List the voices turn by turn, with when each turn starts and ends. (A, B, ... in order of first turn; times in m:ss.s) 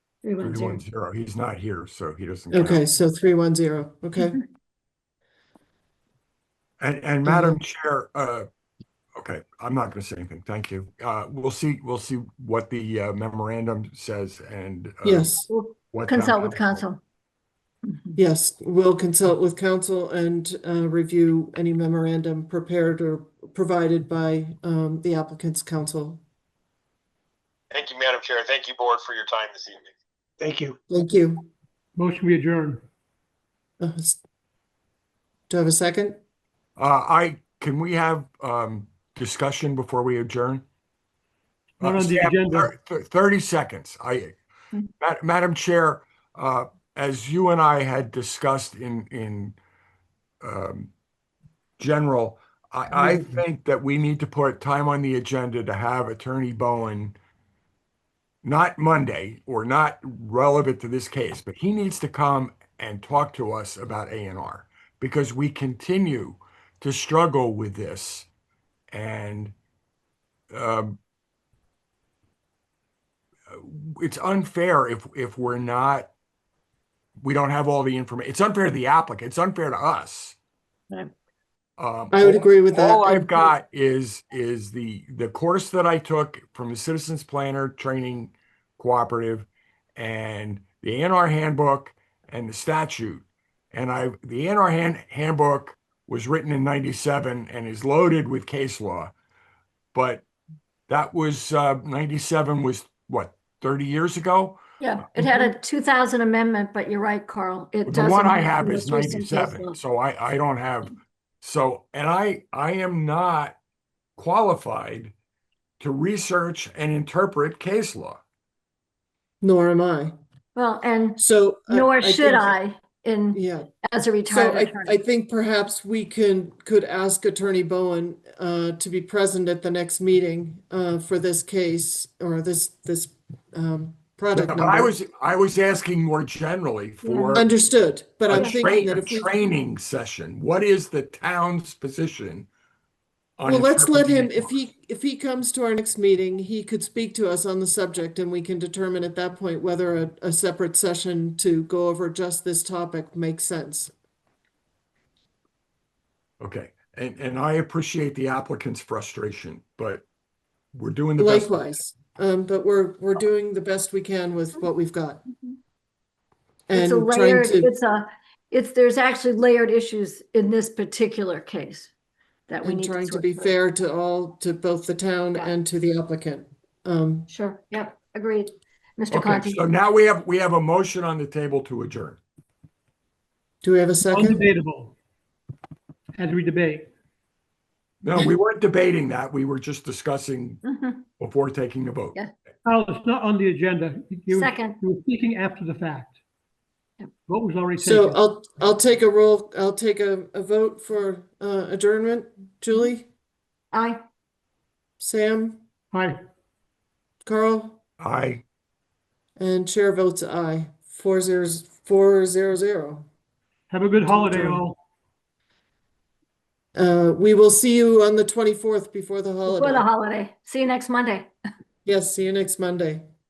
0:00.2-0:00.8 A
0:00.4-0:02.8 B
0:02.5-0:04.4 C
0:06.8-0:08.5 B
0:07.2-0:07.6 C
0:09.2-0:15.4 B
0:15.0-0:15.4 C
0:15.5-0:17.0 A
0:15.9-0:16.8 B
0:17.8-0:18.2 A
0:18.2-0:26.2 C
0:27.7-0:29.8 D
0:30.4-0:30.7 D
0:30.9-0:31.5 C
0:32.0-0:32.8 E
0:33.8-0:34.2 C
0:35.5-0:36.2 C
0:36.8-0:40.6 B
0:41.8-0:42.7 E
0:41.8-0:44.3 B
0:45.0-0:49.6 B
0:50.4-0:50.9 B
0:51.8-0:57.2 B
0:58.4-1:08.3 B
1:08.9-1:09.5 B
1:10.5-1:11.0 B
1:13.5-1:16.1 B
1:17.2-1:20.4 B
1:21.8-1:39.1 B
1:22.1-1:23.3 C
1:39.9-1:40.2 B
1:40.9-1:44.6 B
1:44.8-1:49.8 A
1:45.2-1:45.4 B
1:47.8-1:53.6 B
1:54.2-1:55.1 B
1:55.8-1:58.2 B
1:59.4-2:00.1 C
2:00.6-2:04.9 A
2:01.2-2:02.6 C
2:03.3-2:03.7 C
2:04.3-2:15.0 C
2:14.3-2:17.5 B
2:17.0-2:17.4 A
2:17.3-2:19.3 C
2:18.3-2:22.5 B
2:18.3-2:18.7 A
2:23.4-2:24.5 B
2:23.4-2:33.9 C
2:36.4-2:40.0 B
2:40.7-2:41.6 B
2:41.2-2:45.2 C
2:46.7-2:47.7 C
2:46.7-2:51.9 A
2:52.5-2:53.5 A
2:52.6-2:57.3 C
2:57.3-2:59.6 A
2:59.1-3:02.2 B
3:03.6-3:04.4 C
3:04.0-3:04.9 E
3:06.2-3:06.9 E
3:08.0-3:10.6 B
3:10.6-3:11.0 A
3:11.2-3:12.2 B
3:12.6-3:16.1 E
3:14.3-3:14.8 A
3:17.3-3:18.2 E
3:17.8-3:23.1 C
3:23.7-3:24.0 A
3:25.0-3:25.6 C
3:25.9-3:26.2 E
3:27.2-3:27.8 C
3:28.0-3:28.4 B
3:29.4-3:33.1 C
3:33.7-3:34.8 E
3:34.0-3:34.6 C
3:36.7-3:39.9 C
3:39.4-3:41.3 A
3:41.8-3:43.0 C